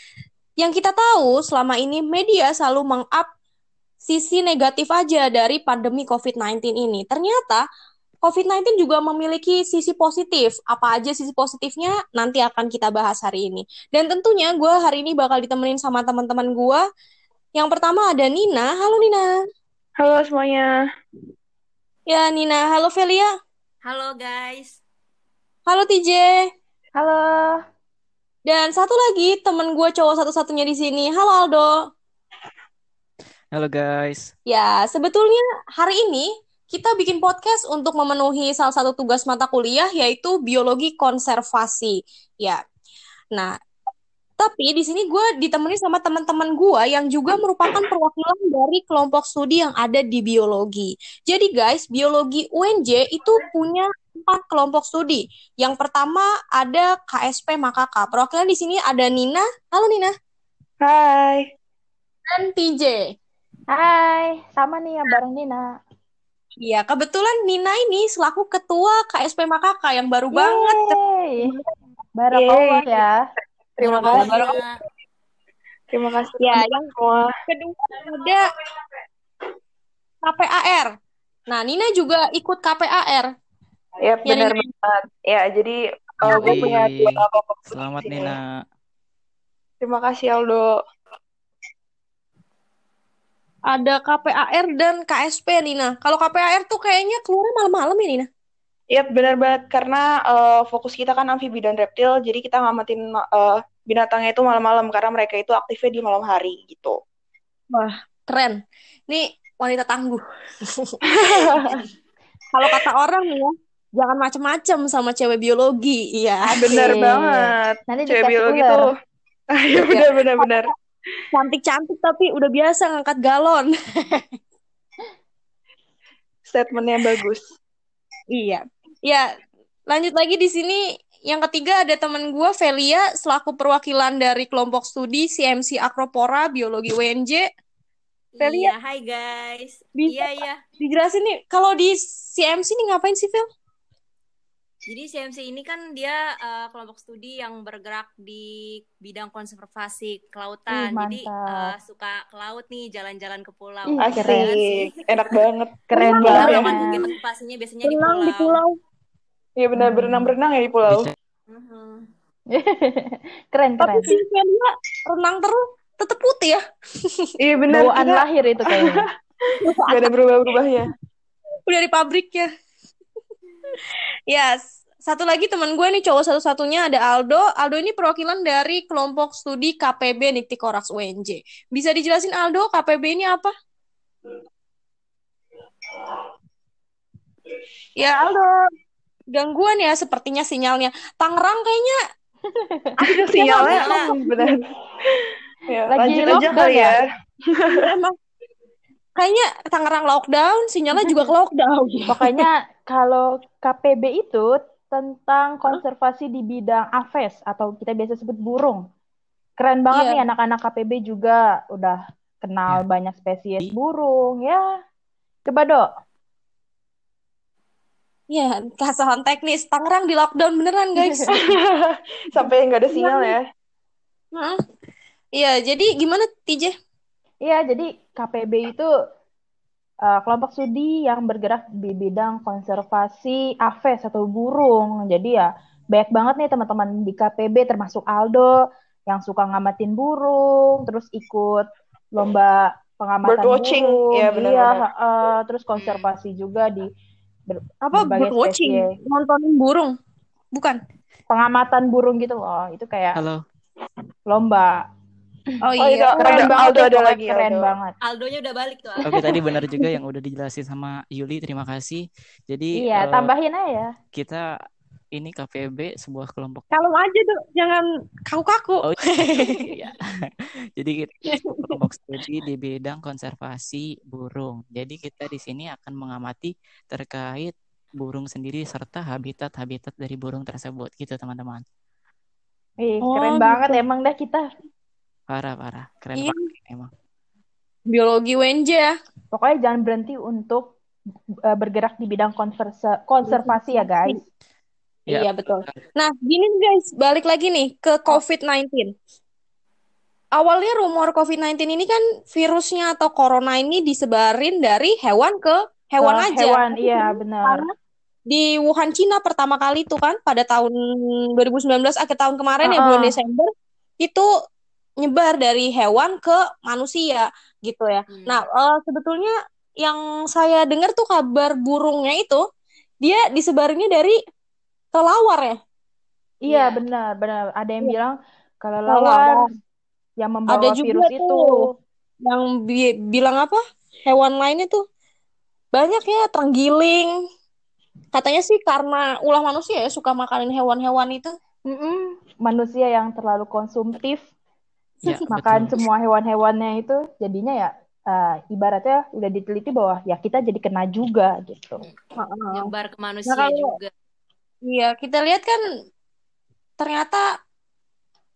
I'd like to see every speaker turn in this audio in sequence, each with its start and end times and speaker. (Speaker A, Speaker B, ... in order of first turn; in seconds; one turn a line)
Speaker A: 0.6-3.3
Speaker A: 4.1-7.6
Speaker A: 8.2-16.8
Speaker A: 17.6-19.3
Speaker B: 20.0-20.7
Speaker A: 22.1-23.3
Speaker C: 23.9-24.8
Speaker A: 25.7-26.3
Speaker D: 27.0-27.6
Speaker A: 28.5-31.7
Speaker E: 33.5-34.3
Speaker A: 34.5-42.6
Speaker A: 44.4-60.1
Speaker B: 60.8-61.5
Speaker A: 62.3-63.1
Speaker D: 63.7-65.7
Speaker A: 66.6-71.7
Speaker D: 70.3-71.5
Speaker D: 72.2-73.2
Speaker B: 72.3-72.9
Speaker B: 73.8-74.5
Speaker C: 73.8-74.8
Speaker A: 73.9-74.6
Speaker B: 75.9-77.3
Speaker A: 76.4-76.9
Speaker A: 77.5-78.5
Speaker A: 80.2-80.9
Speaker A: 81.5-83.3
Speaker B: 84.0-88.4
Speaker A: 84.3-84.6
Speaker E: 86.2-88.5
Speaker A: 86.3-86.7
Speaker B: 89.8-90.7
Speaker A: 93.7-98.3
Speaker B: 98.9-107.0
Speaker A: 107.7-111.6
Speaker B: 111.0-111.8
Speaker A: 112.5-116.9
Speaker B: 116.5-119.0
Speaker D: 116.7-118.8
Speaker B: 119.5-120.7
Speaker A: 119.8-120.7
Speaker A: 121.3-124.2
Speaker B: 126.5-127.4
Speaker A: 128.3-129.2
Speaker A: 129.9-137.5
Speaker C: 138.3-140.6
Speaker A: 138.4-138.7
Speaker A: 140.0-143.5
Speaker C: 144.9-155.0
Speaker D: 150.7-151.7
Speaker D: 153.9-154.5
Speaker B: 154.0-156.7
Speaker D: 155.9-157.0
Speaker A: 156.0-156.8
Speaker C: 156.1-158.6
Speaker A: 157.8-158.7
Speaker B: 159.6-161.1
Speaker D: 159.8-160.3
Speaker E: 160.9-161.1
Speaker C: 161.6-162.0
Speaker D: 162.5-164.1
Speaker A: 163.8-167.3
Speaker B: 167.4-170.9
Speaker D: 167.7-169.1
Speaker A: 169.6-170.6
Speaker A: 171.7-172.5
Speaker A: 174.3-183.5
Speaker A: 188.0-188.5
Speaker A: 189.3-192.0
Speaker D: 192.5-194.5
Speaker B: 193.0-197.9
Speaker C: 193.6-194.1
Speaker D: 195.9-196.9
Speaker A: 197.7-198.1
Speaker A: 199.2-202.4
Speaker D: 201.0-201.3
Speaker D: 202.1-208.8
Speaker D: 209.6-214.7
Speaker A: 209.9-210.2
Speaker D: 215.5-215.9
Speaker A: 218.3-221.5
Speaker B: 221.3-223.4
Speaker A: 222.9-223.3
Speaker A: 225.4-226.7
Speaker D: 227.4-228.9
Speaker D: 230.1-238.6
Speaker D: 239.1-246.9
Speaker B: 243.2-244.8
Speaker C: 245.8-246.1
Speaker D: 247.5-248.9
Speaker A: 247.9-249.9
Speaker A: 250.5-250.8
Speaker D: 251.3-253.2
Speaker E: 253.2-253.4
Speaker D: 254.3-254.8
Speaker A: 255.6-256.6
Speaker B: 255.8-257.7
Speaker D: 256.2-257.9
Speaker C: 258.0-259.4
Speaker E: 259.0-263.3
Speaker D: 259.1-259.9
Speaker D: 262.8-263.9
Speaker E: 264.1-264.5
Speaker E: 265.1-266.7
Speaker A: 266.7-269.6
Speaker E: 268.8-281.6
Speaker A: 271.3-271.8
Speaker D: 282.8-284.4
Speaker A: 283.0-283.8
Speaker E: 285.3-286.9
Speaker A: 286.2-286.4
Speaker A: 287.9-288.9
Speaker D: 289.3-290.8
Speaker D: 291.5-294.2
Speaker A: 293.3-294.2
Speaker E: 295.1-295.8
Speaker A: 295.1-298.9
Speaker A: 300.4-307.7
Speaker D: 306.0-307.7
Speaker A: 308.3-313.5
Speaker D: 312.6-313.2
Speaker A: 314.0-314.3
Speaker A: 315.0-322.4
Speaker C: 318.1-318.4
Speaker A: 323.0-324.2
Speaker A: 324.9-325.6
Speaker D: 326.4-329.4
Speaker C: 326.5-326.9
Speaker A: 328.9-329.5
Speaker D: 330.2-331.7
Speaker A: 330.5-331.7
Speaker A: 332.2-334.8
Speaker A: 335.7-337.1
Speaker A: 338.1-341.3
Speaker D: 341.7-344.2
Speaker A: 345.0-345.3
Speaker E: 345.1-345.8
Speaker D: 345.3-351.9
Speaker A: 352.2-352.7
Speaker C: 352.5-353.9
Speaker A: 353.3-353.7
Speaker A: 354.7-355.6
Speaker A: 356.8-357.3